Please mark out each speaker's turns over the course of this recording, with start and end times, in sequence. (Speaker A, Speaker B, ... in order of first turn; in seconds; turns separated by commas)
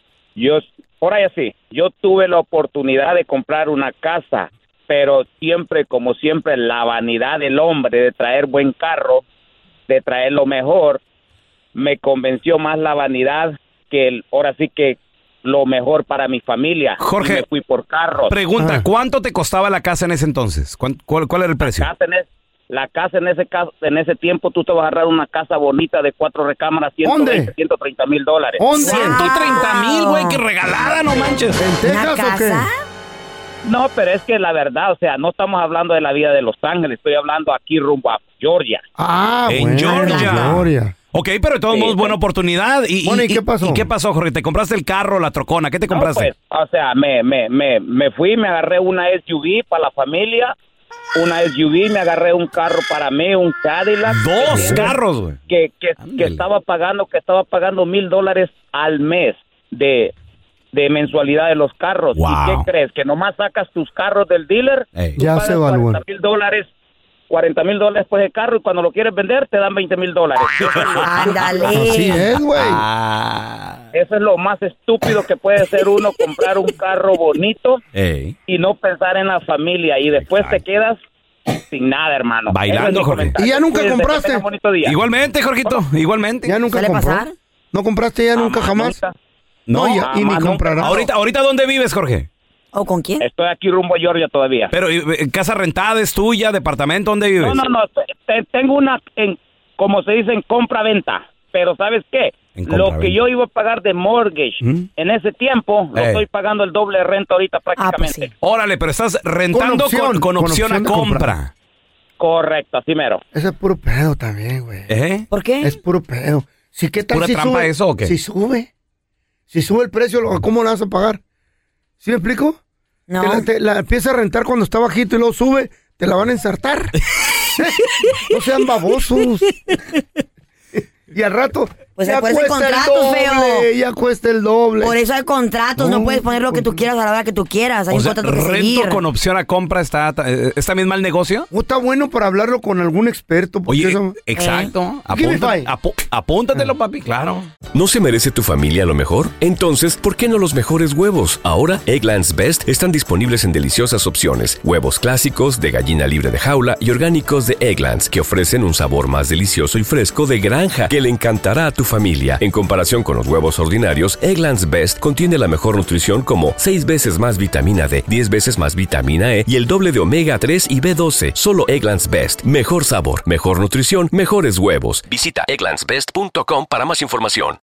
Speaker A: 0.4-9.2, Speaker A: 9.9-11.0, Speaker A: 11.8-18.3, Speaker B: 17.0-17.4, Speaker B: 18.3-21.9, Speaker C: 18.6-18.9, Speaker A: 21.6-28.6, Speaker C: 27.0-27.5, Speaker C: 28.6-29.3, Speaker D: 28.8-30.4, Speaker B: 28.8-31.6, Speaker C: 31.6-32.7, Speaker D: 31.8-32.8, Speaker A: 33.6-38.8, Speaker C: 39.0-40.9, Speaker B: 39.5-46.3, Speaker D: 39.9-40.5, Speaker A: 41.7-42.1, Speaker C: 43.0-43.9, Speaker A: 45.9-50.5, Speaker A: 51.1-54.9, Speaker B: 54.1-55.4, Speaker A: 55.5-60.1, Speaker B: 56.0-56.5, Speaker A: 60.7-66.7, Speaker B: 62.1-62.7, Speaker C: 65.2-66.0, Speaker A: 67.3-71.7, Speaker B: 70.6-71.8, Speaker D: 71.0-72.2, Speaker C: 71.7-72.8, Speaker B: 72.3-73.8, Speaker A: 73.9-77.8, Speaker B: 77.9-78.3, Speaker A: 78.5-81.0, Speaker B: 80.2-80.6, Speaker A: 81.7-85.0, Speaker B: 82.5-83.3, Speaker C: 83.4-84.4, Speaker B: 84.8-86.5, Speaker C: 86.4-89.0, Speaker D: 86.7-87.3, Speaker A: 88.3-89.1, Speaker B: 89.7-90.1, Speaker C: 89.7-91.0, Speaker A: 90.0-91.0, Speaker B: 90.8-92.3, Speaker D: 92.7-93.2, Speaker A: 93.2-94.7, Speaker B: 94.7-97.6, Speaker A: 97.4-108.3, Speaker B: 102.6-103.2, Speaker C: 104.6-104.9, Speaker B: 105.9-106.2, Speaker D: 107.8-108.3, Speaker B: 108.4-111.5, Speaker C: 109.5-111.3, Speaker A: 112.2-113.2, Speaker C: 113.3-114.9, Speaker B: 114.9-115.3, Speaker D: 115.3-115.8, Speaker C: 115.6-118.7, Speaker B: 117.1-118.1, Speaker C: 119.5-121.2, Speaker C: 122.0-122.6, Speaker D: 123.1-123.5, Speaker C: 123.2-126.9, Speaker C: 127.5-129.6, Speaker C: 131.1-135.0, Speaker D: 132.0-133.7, Speaker D: 134.8-139.0, Speaker C: 135.8-136.8, Speaker B: 137.9-141.5, Speaker C: 141.5-144.2, Speaker B: 143.7-147.5, Speaker D: 144.4-144.7, Speaker C: 145.1-145.7, Speaker E: 147.7-177.6